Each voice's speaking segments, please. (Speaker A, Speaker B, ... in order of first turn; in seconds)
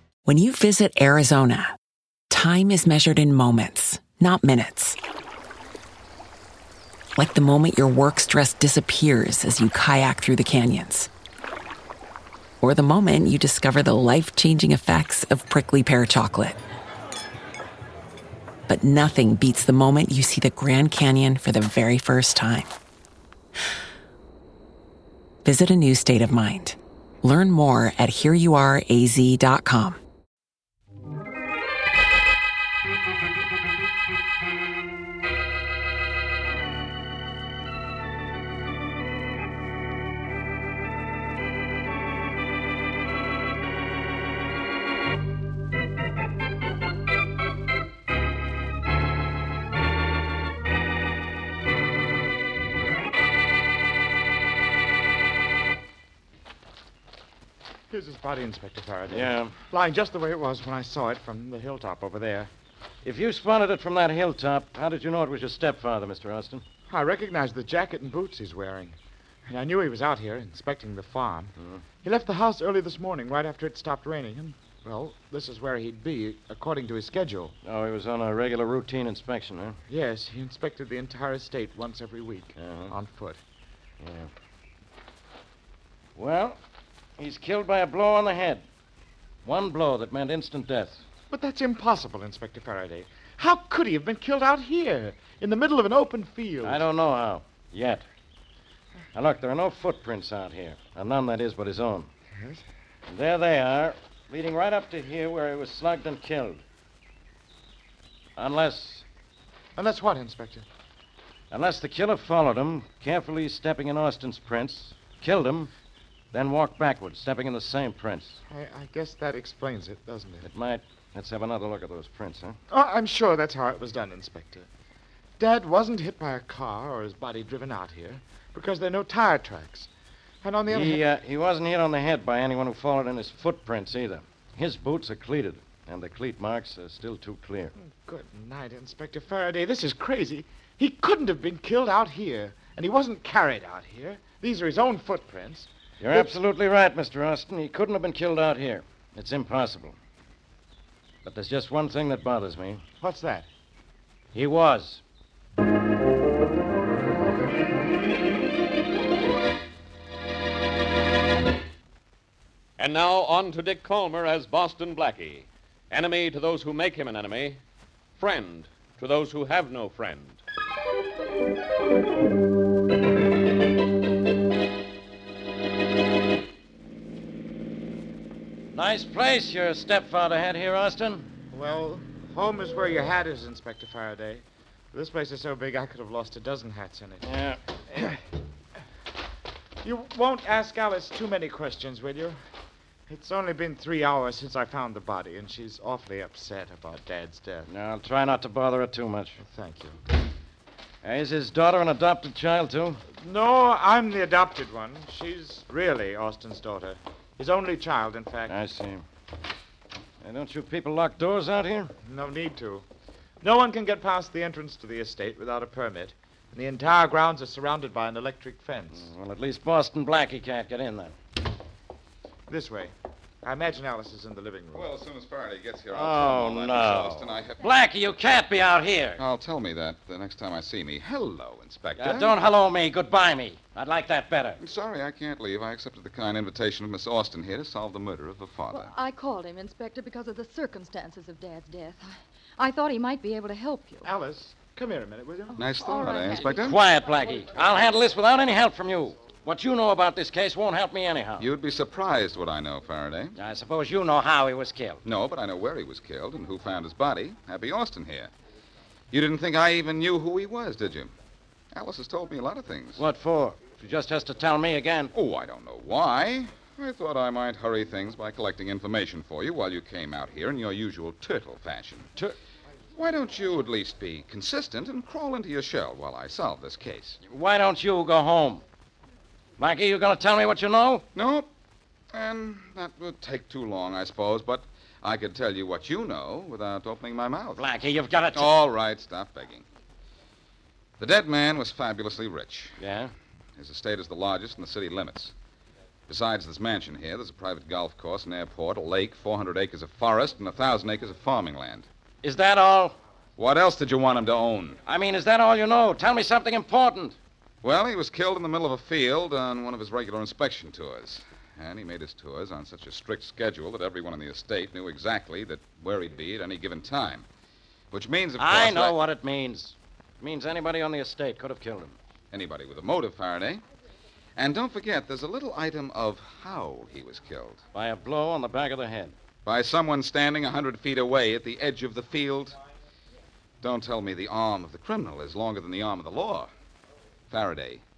Speaker A: 0.2-1.8, 2.3-5.0, 7.2-11.1, 12.6-16.6, 18.7-22.7, 25.4-30.0
Speaker B: 57.9-62.5, 66.9-77.5, 79.9-83.4, 91.3-96.8, 102.3-102.6, 109.8-110.7, 118.5-120.5, 122.7-124.7, 125.4-129.9, 130.4-131.0, 137.8-146.3, 153.0-153.5, 181.5-187.3, 189.8-192.4, 193.1-197.7, 199.4-200.0, 203.1-208.6, 212.1-212.9, 213.4-219.1, 222.5-224.9, 244.0-245.6
Speaker C: 59.1-59.5, 63.0-66.6, 77.7-79.8, 82.6-82.9, 84.0-84.3, 86.2-86.6, 87.2-88.7, 89.4-91.0, 96.6-98.1, 99.1-102.1, 103.1-106.6, 108.4-109.0, 111.5-115.7, 116.3-118.4, 120.5-122.6, 130.7-137.7, 146.0-150.0, 151.2-152.8, 154.3-155.0, 178.7-181.3, 187.2-187.6, 197.7-199.4, 201.0-203.0, 208.5-209.0, 210.2-211.9, 219.0-221.2, 225.9-229.2, 232.0-234.6, 246.5-251.5, 253.4-255.0, 263.0-265.1, 277.2-278.6, 279.6-281.1, 287.6-288.5, 292.8-293.1, 302.2-303.0, 304.9-307.2, 318.4-322.0, 327.7-329.2
Speaker D: 162.8-167.6, 168.2-170.4
Speaker E: 224.7-227.6, 229.2-232.4, 234.6-238.9, 245.6-246.8, 251.4-253.3, 255.1-258.3, 259.1-261.1, 261.7-263.0, 265.1-272.1, 273.0-277.2, 281.1-281.5, 282.1-287.6, 288.3-289.7, 291.0-292.8, 293.6-295.3, 296.1-301.9, 303.4-304.8, 307.6-317.3, 317.9-318.9, 322.3-323.6, 324.4-327.6, 329.4-332.6, 333.6-336.5, 337.3-337.8
Speaker F: 238.7-244.1, 245.6-246.5